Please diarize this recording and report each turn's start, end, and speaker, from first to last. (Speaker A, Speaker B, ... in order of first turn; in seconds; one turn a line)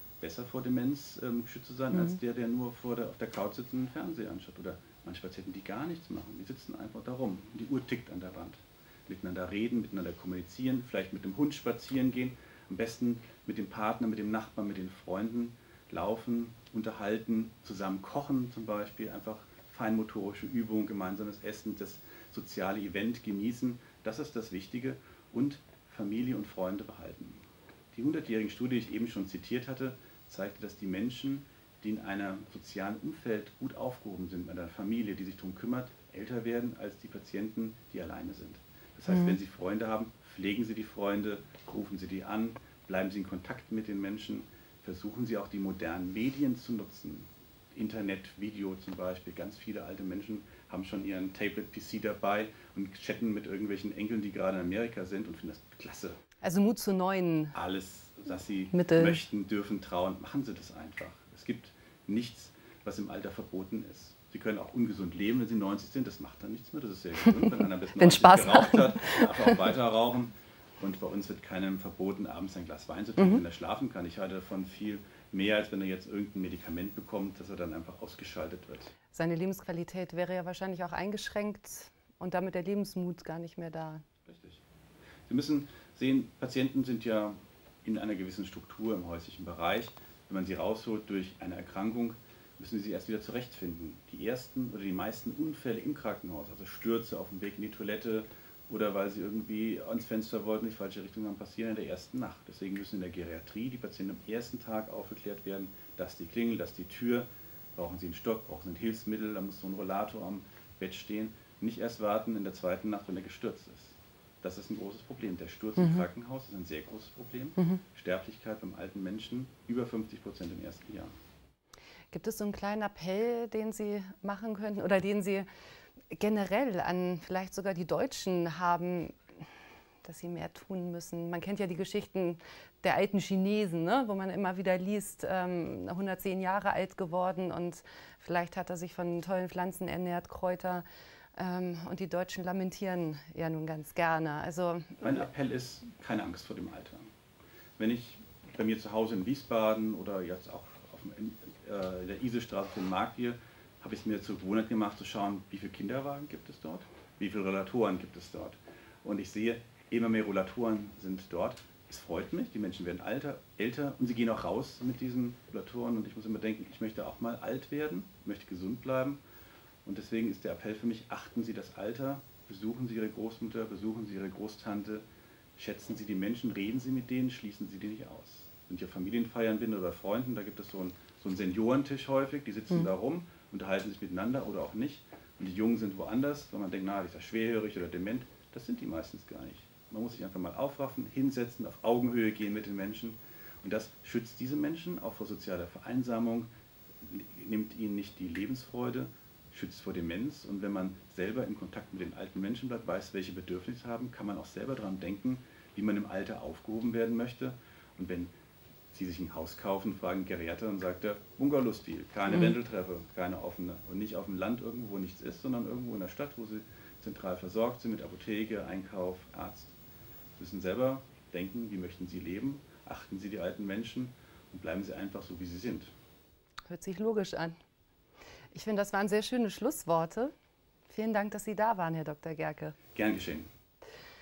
Speaker A: 0.2-56.2
Speaker B: 56.4-57.5
Speaker A: 57.5-78.9
Speaker B: 58.7-59.2
Speaker B: 68.0-69.5
Speaker B: 79.1-84.0
Speaker A: 84.2-84.6
Speaker A: 85.3-121.1
Speaker B: 115.8-116.0
Speaker B: 122.1-125.5
Speaker B: 126.1-129.2
Speaker B: 130.0-140.8
Speaker B: 141.3-145.2
Speaker A: 145.0-147.1
Speaker A: 147.8-169.2
Speaker A: 169.8-175.0
Speaker A: 175.6-196.5
Speaker A: 197.0-208.3
Speaker A: 208.9-219.7
Speaker A: 220.4-225.9
Speaker B: 226.7-227.6
Speaker B: 228.5-230.3
Speaker B: 230.9-232.8
Speaker A: 232.9-233.5